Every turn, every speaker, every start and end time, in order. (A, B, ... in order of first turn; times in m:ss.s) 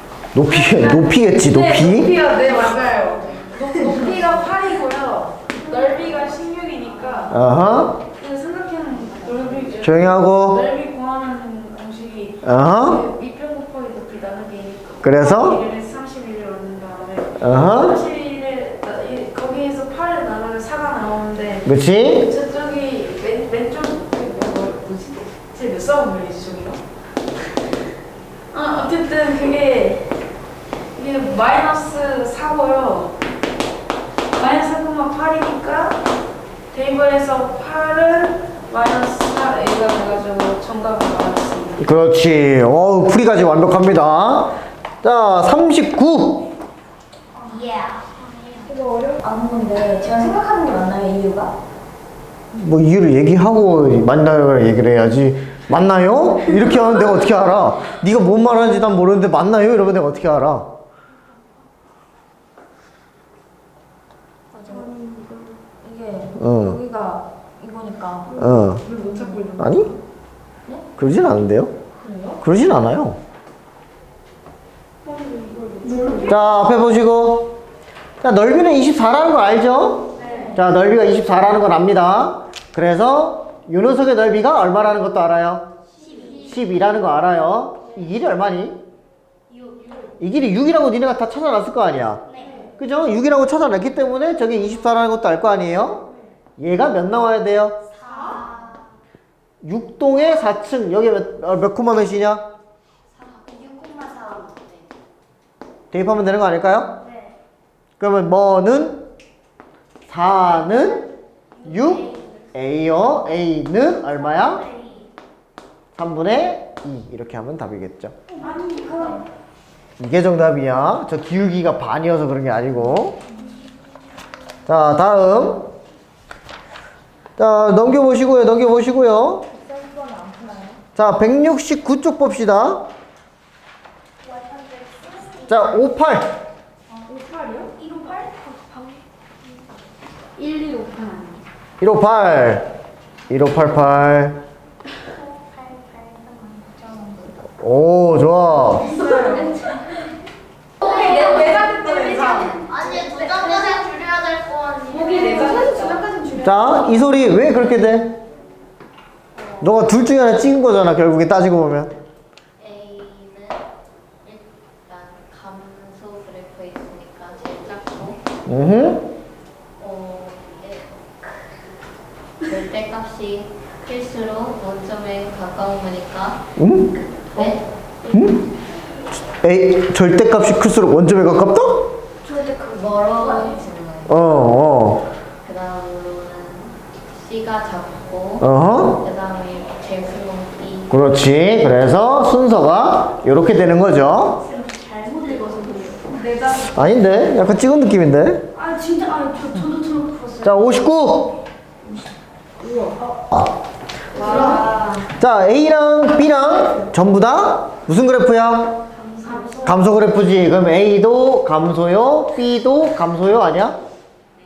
0:00.3-0:02.2 A
0:00.4-0:07.4 B
0:02.4-0:04.1 C
0:05.5-0:06.3 C
0:07.0-0:07.3 C
0:07.3-0:08.0 A
0:08.0-0:21.7 B
0:09.8-0:10.7 A
0:12.4-0:13.0 A
0:15.0-0:15.6 A
0:17.4-0:18.0 A
0:21.6-0:22.3 A
0:22.2-0:26.8 B
0:28.5-0:30.1 B
0:30.9-0:33.2 B
0:34.3-0:36.0 B
0:36.7-0:41.9 B
0:41.8-0:46.4 A
0:47.3-0:47.7 C
0:47.5-0:48.6 D
0:48.7-0:51.5 C
0:52.5-1:00.7 A
1:04.6-1:09.6 C
1:06.4-1:06.8 A
1:08.3-1:09.7 B
1:08.3-1:08.8 A
1:09.6-1:09.9 A
1:11.0-1:11.7 A
1:12.4-1:13.2 A
1:15.0-1:16.5 B
1:15.4-1:16.4 C
1:16.2-1:17.6 A
1:18.2-1:25.7 A
1:20.2-1:20.6 C
1:20.2-1:20.5 B
1:26.0-1:26.5 C
1:26.0-1:26.6 D
1:26.3-1:28.8 A
1:29.6-1:29.9 C
1:30.2-1:32.2 A
1:32.3-1:32.7 C
1:32.4-1:32.7 B
1:32.8-1:36.0 A
1:36.6-1:37.8 A
1:37.9-1:38.8 C
1:38.2-1:38.9 D
1:39.6-1:42.4 A
1:43.2-1:44.5 C
1:43.6-1:44.8 D
1:45.9-1:47.0 A
1:47.0-1:47.4 C
1:48.0-1:49.1 A
1:50.1-1:51.1 A
1:51.6-1:52.3 C
1:51.6-1:54.6 A
1:54.2-1:55.1 C
1:55.9-1:58.1 A
1:58.3-1:59.2 C
1:58.4-1:59.2 B
2:00.0-2:03.2 A
2:04.7-2:05.7 A
2:07.4-2:09.5 A
2:09.6-2:10.8 B
2:11.0-2:12.9 A
2:14.2-2:15.8 C
2:15.4-2:16.4 A
2:17.0-2:17.7 B
2:17.6-2:19.0 C
2:20.4-2:21.4 B
2:21.8-2:22.7 A
2:23.3-2:24.4 A
2:25.1-2:27.3 C
2:27.6-2:29.0 A
2:28.8-2:29.6 B
2:28.8-2:29.9 C
2:30.8-2:32.6 B
2:30.8-2:33.8 C
2:32.2-2:36.0 D
2:34.9-2:36.7 B
2:35.1-2:35.9 C
2:36.4-2:38.2 A
2:39.6-2:41.9 A
2:42.6-2:43.6 D
2:44.2-2:48.2 D
2:48.5-2:49.0 A
2:49.8-2:51.5 D
2:52.4-2:56.4 D
2:56.6-2:56.9 A
2:57.3-2:58.1 D
2:58.1-2:58.4 A
2:59.4-3:01.9 A
3:02.2-3:03.5 C
3:02.7-3:04.5 D
3:03.2-3:03.5 B
3:04.1-3:05.1 A
3:05.4-3:10.9 D
3:08.4-3:09.0 A
3:10.9-3:14.4 A
3:14.4-3:16.2 C
3:16.1-3:16.7 B
3:16.6-3:18.5 A
3:18.6-3:20.6 C
3:20.4-3:21.4 A
3:22.8-3:23.0 C
3:24.1-3:25.0 C
3:24.2-3:24.7 B
3:24.2-3:28.8 A
3:28.9-3:29.7 C
3:29.2-3:29.7 B
3:29.6-3:33.8 A